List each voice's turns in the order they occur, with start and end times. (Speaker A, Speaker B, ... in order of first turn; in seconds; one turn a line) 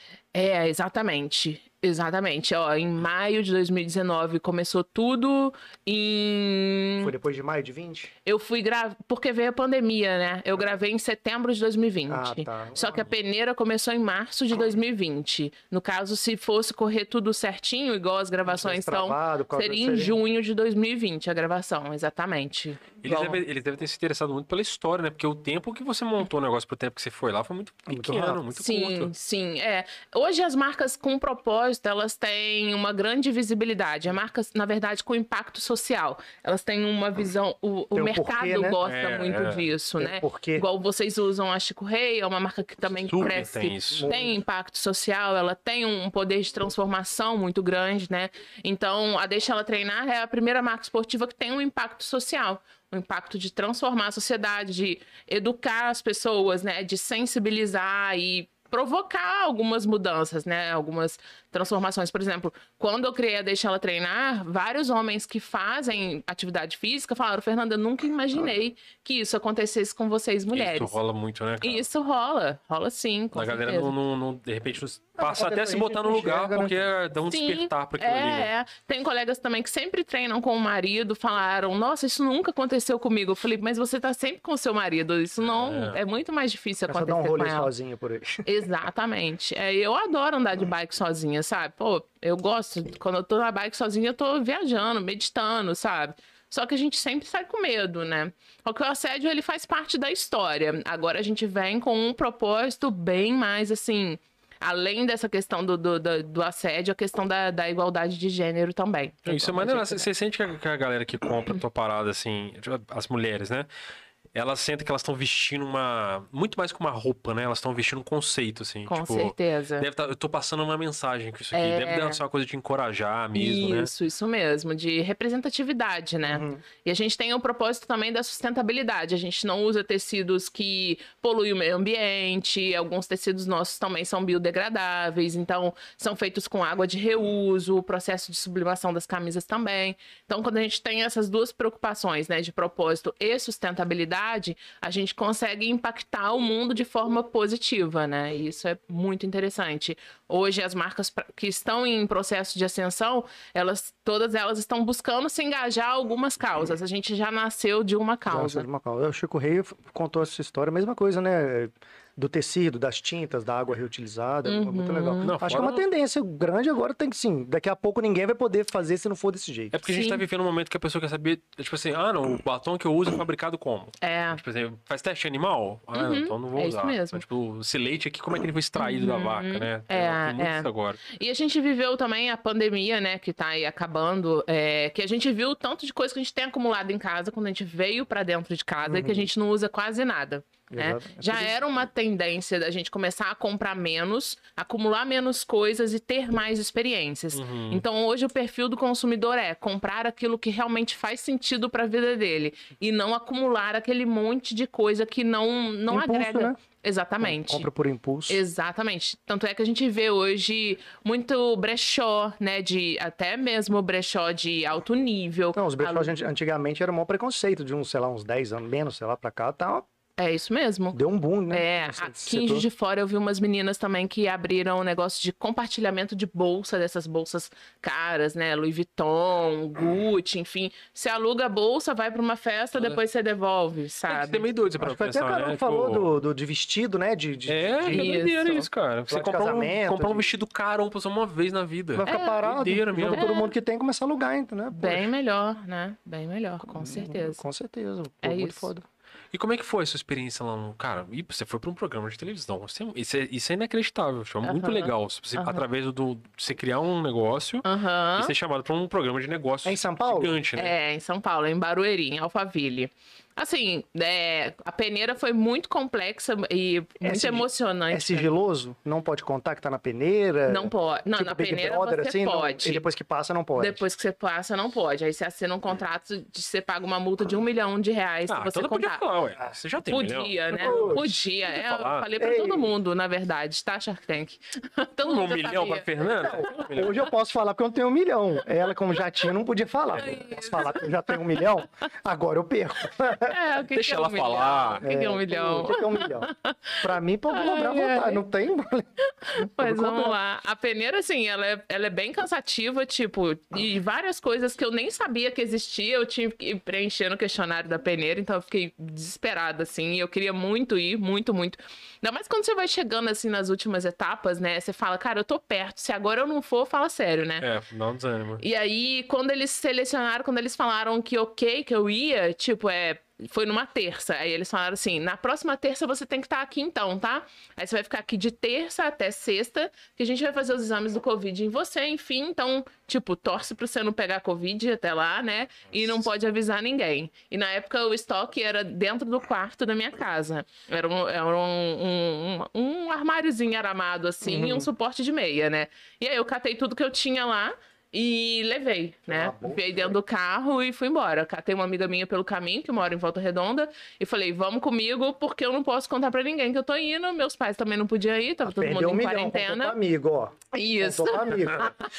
Speaker A: 0.3-7.1
Speaker B: 7.0-8.1
Speaker A: 8.2-23.4
Speaker B: 12.1-13.1
Speaker B: 18.5-20.2
Speaker C: 23.0-29.1
Speaker B: 27.9-28.4
Speaker A: 28.5-71.0
Speaker B: 37.9-38.8
Speaker C: 38.8-39.7
Speaker B: 40.0-40.7
Speaker C: 43.1-44.1
Speaker B: 43.9-44.4
Speaker C: 70.5-71.9
Speaker A: 71.6-74.0
Speaker C: 73.3-78.5
Speaker B: 75.2-76.8
Speaker A: 77.3-87.7
Speaker C: 85.5-86.0
Speaker B: 86.9-88.5
Speaker A: 88.4-110.1
Speaker C: 109.3-113.7
Speaker C: 114.3-123.9
Speaker A: 118.9-119.9
Speaker A: 121.5-122.2
Speaker A: 123.3-158.7
Speaker B: 126.3-126.6
Speaker B: 158.3-169.7
Speaker A: 164.4-165.4
Speaker C: 165.2-165.8
Speaker C: 169.7-181.0
Speaker A: 169.8-170.2
Speaker A: 174.0-174.4
Speaker A: 175.9-177.2
Speaker A: 178.8-207.7
Speaker B: 188.9-189.3
Speaker B: 190.7-191.6
Speaker C: 197.3-197.8
Speaker B: 205.9-206.6
Speaker B: 207.2-208.4
Speaker A: 208.3-216.1
Speaker B: 215.6-219.9
Speaker A: 220.2-221.0
Speaker B: 220.9-222.7
Speaker A: 221.5-234.5
Speaker C: 234.1-236.1
Speaker B: 234.8-238.3
Speaker C: 237.5-243.3
Speaker A: 237.9-238.7
Speaker B: 239.1-240.3
Speaker B: 241.9-245.1
Speaker A: 242.1-242.4
Speaker A: 243.0-243.5
Speaker A: 244.7-247.4
Speaker B: 246.6-248.8
Speaker A: 248.2-248.7
Speaker C: 249.3-257.7
Speaker A: 254.4-255.6
Speaker A: 257.6-258.3
Speaker C: 258.2-260.7
Speaker B: 259.6-260.4
Speaker A: 260.6-268.3
Speaker B: 267.0-273.8
Speaker A: 270.5-272.8
Speaker A: 273.6-279.0
Speaker C: 278.3-282.1
Speaker A: 279.9-285.9
Speaker B: 280.6-281.0
Speaker B: 282.2-282.7
Speaker C: 285.1-287.0
Speaker B: 286.2-293.3
Speaker A: 290.0-291.4
Speaker A: 293.3-298.2
Speaker C: 293.8-294.8
Speaker B: 294.8-296.3
Speaker B: 296.8-298.9
Speaker A: 299.1-317.4
Speaker B: 299.4-300.2
Speaker C: 317.4-318.4
Speaker A: 318.4-359.8
Speaker B: 344.2-344.7
Speaker B: 349.1-349.9
Speaker B: 358.4-361.6
Speaker A: 360.5-361.7